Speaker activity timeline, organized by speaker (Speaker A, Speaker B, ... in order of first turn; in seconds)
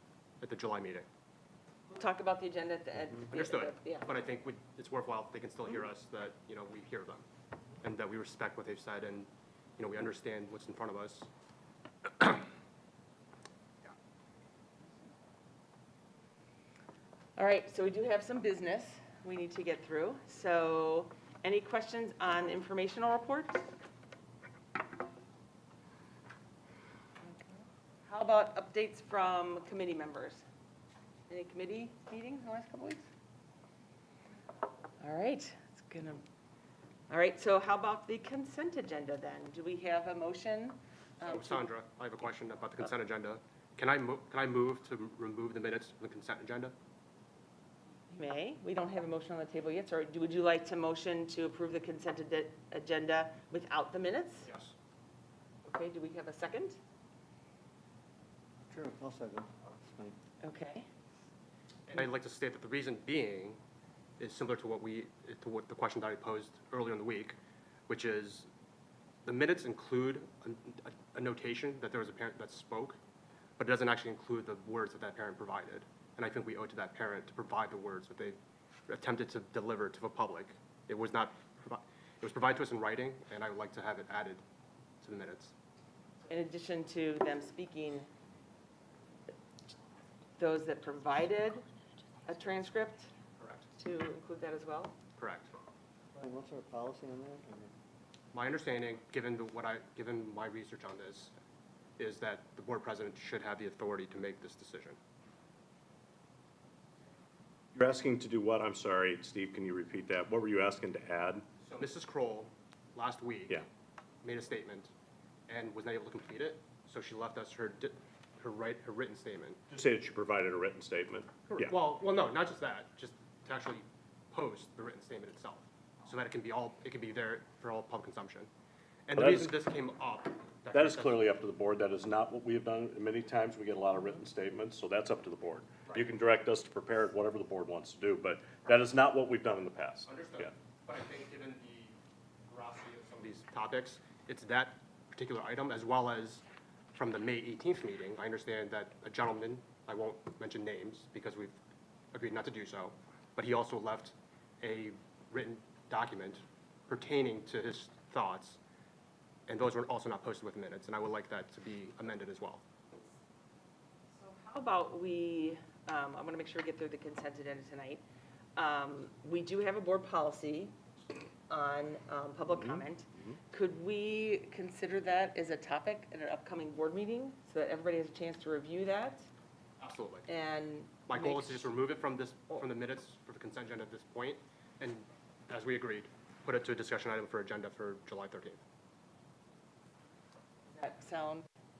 Speaker A: 0.4-1.1, 3.3-7.2, 7.8-11.3, 41.2-46.7, 54.4-54.7, 61.9-63.6, 64.2-68.5, 69.2-73.0, 73.6-78.4, 78.9-84.4, 85.0-85.5, 93.4-93.6, 95.2-95.5, 98.3-101.3, 102.0-105.0, 111.6-113.6, 114.2-114.9, 115.5-119.6, 121.5-128.5, 129.1-131.2, 140.1-141.9, 142.5-151.6, 152.1-158.6, 159.5-162.6, 179.8-180.2, 181.1-188.6
Speaker B: 1.9-4.2, 17.4-23.6, 27.2-30.4, 31.3-33.0, 35.0-36.2, 37.1-41.6, 48.1-54.5, 55.6-56.8, 60.4-60.9, 86.3-88.1, 90.4-91.6, 92.2-93.1, 93.8-94.9, 164.1-168.0, 168.6-170.8, 171.5-179.3, 180.3-181.7, 190.7-191.4
Speaker C: 58.7-60.2, 96.1-97.7
Speaker D: 107.7-111.4, 119.7-121.7, 129.1-129.5, 130.7-140.5, 172.5-173.3